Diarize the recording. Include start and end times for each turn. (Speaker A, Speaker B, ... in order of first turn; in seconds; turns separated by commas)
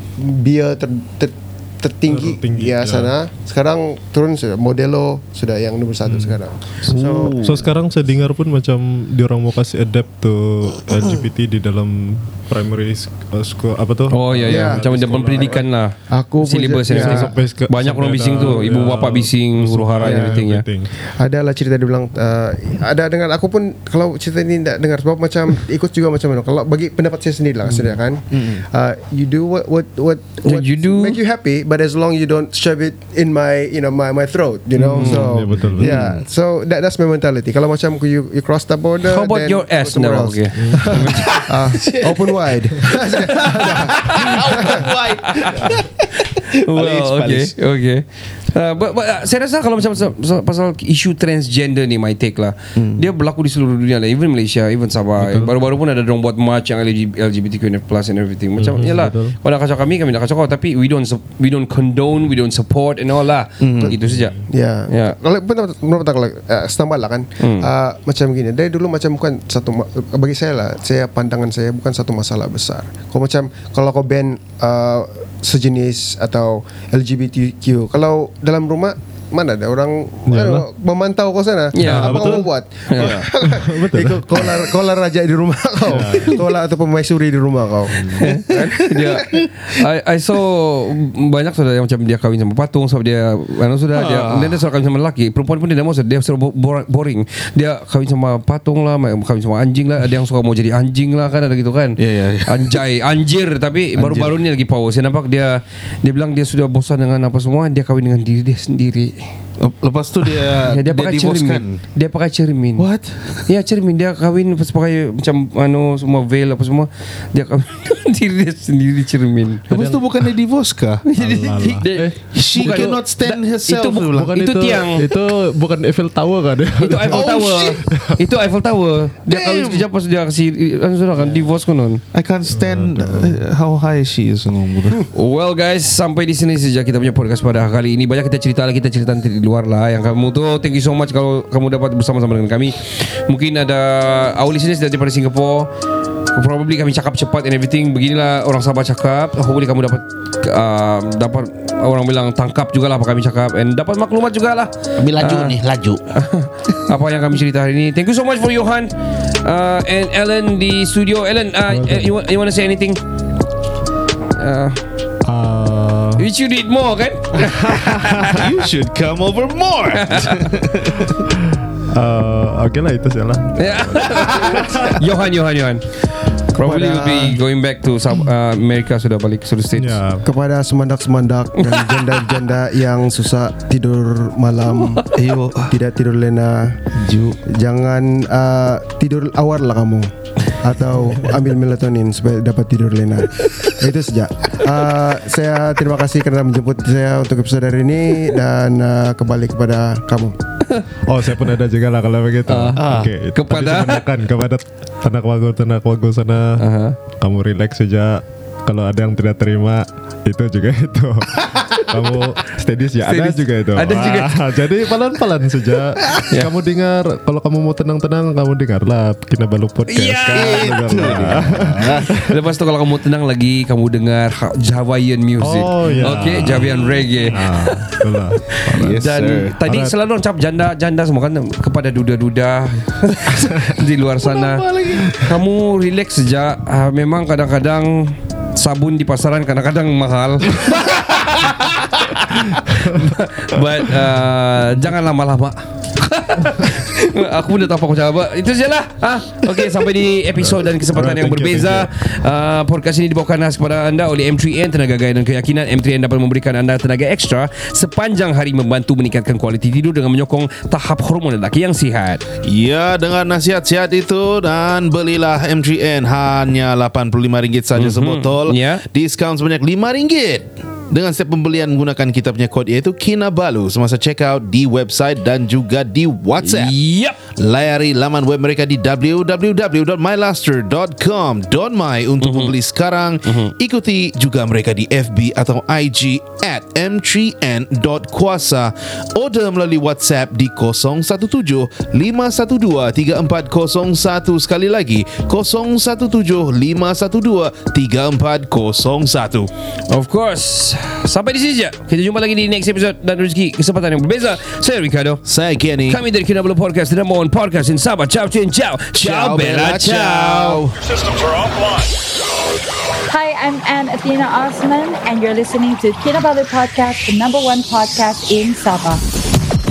Speaker A: 0.2-7.4, Speaker B: 2.1-3.1, Speaker C: 6.9-7.6, Speaker B: 7.3-15.6, Speaker D: 14.1-20.6, Speaker A: 14.5-17.3, Speaker B: 16.9-20.9, Speaker A: 20.0-20.4, Speaker A: 21.2-44.9, Speaker C: 27.7-28.6, Speaker D: 30.4-31.2, Speaker B: 34.8-36.0, Speaker C: 34.9-36.2, Speaker D: 39.1-41.5, Speaker B: 40.5-41.0, Speaker C: 41.8-42.3, Speaker C: 43.0-47.5, Speaker D: 44.0-45.8, Speaker D: 46.3-65.2, Speaker C: 52.8-53.0, Speaker B: 55.2-55.5, Speaker B: 58.6-59.4, Speaker C: 63.6-63.9, Speaker A: 63.8-88.3, Speaker B: 64.1-64.3, Speaker D: 67.4-67.7, Speaker B: 80.3-80.7, Speaker D: 81.7-83.1, Speaker C: 81.8-83.3, Speaker B: 83.3-84.7, Speaker B: 85.9-86.5, Speaker D: 88.2-109.3, Speaker C: 93.9-94.6, Speaker C: 102.0-102.8, Speaker C: 104.0-104.4, Speaker C: 109.6-111.8, Speaker D: 110.6-112.9, Speaker C: 112.8-113.5, Speaker D: 113.4-119.6, Speaker B: 119.7-120.0, Speaker C: 119.7-121.0, Speaker D: 121.0-125.0, Speaker B: 121.2-123.0, Speaker C: 122.3-124.3, Speaker B: 124.1-128.2, Speaker D: 126.8-132.0, Speaker C: 127.1-127.8, Speaker C: 129.3-129.8, Speaker C: 132.1-135.0, Speaker B: 132.4-133.4, Speaker D: 135.1-145.7, Speaker D: 146.3-155.6, Speaker C: 155.0-156.0, Speaker D: 156.1-163.0, Speaker B: 161.7-162.1, Speaker D: 164.4-164.8, Speaker B: 165.2-166.2, Speaker D: 166.2-168.4, Speaker C: 168.3-171.2, Speaker D: 170.0-170.5, Speaker B: 171.4-174.9, Speaker D: 173.6-175.9, Speaker D: 176.5-180.0, Speaker A: 176.6-177.3, Speaker B: 179.8-180.2, Speaker A: 180.2-185.1, Speaker D: 181.6-182.3, Speaker C: 185.2-185.7, Speaker A: 185.7-186.8, Speaker C: 187.0-187.4, Speaker A: 187.5-200.4, Speaker B: 201.1-206.6, Speaker D: 202.5-204.0, Speaker C: 202.8-203.1, Speaker D: 206.6-206.9, Speaker B: 207.2-222.3, Speaker D: 213.0-214.4, Speaker D: 219.9-220.8, Speaker C: 220.3-222.1, Speaker D: 222.2-262.2, Speaker B: 225.4-229.0, Speaker C: 225.9-226.1, Speaker C: 227.3-227.7, Speaker C: 228.7-229.5, Speaker B: 229.6-229.9, Speaker C: 234.2-235.3, Speaker B: 242.7-243.1, Speaker B: 250.4-251.9, Speaker C: 262.4-276.8, Speaker D: 267.8-268.8, Speaker D: 276.4-277.2, Speaker C: 277.3-299.5, Speaker D: 282.2-282.5, Speaker D: 283.2-283.5, Speaker D: 299.9-305.2, Speaker C: 305.2-306.0, Speaker D: 305.9-310.6, Speaker C: 308.9-310.9, Speaker E: 313.1-319.0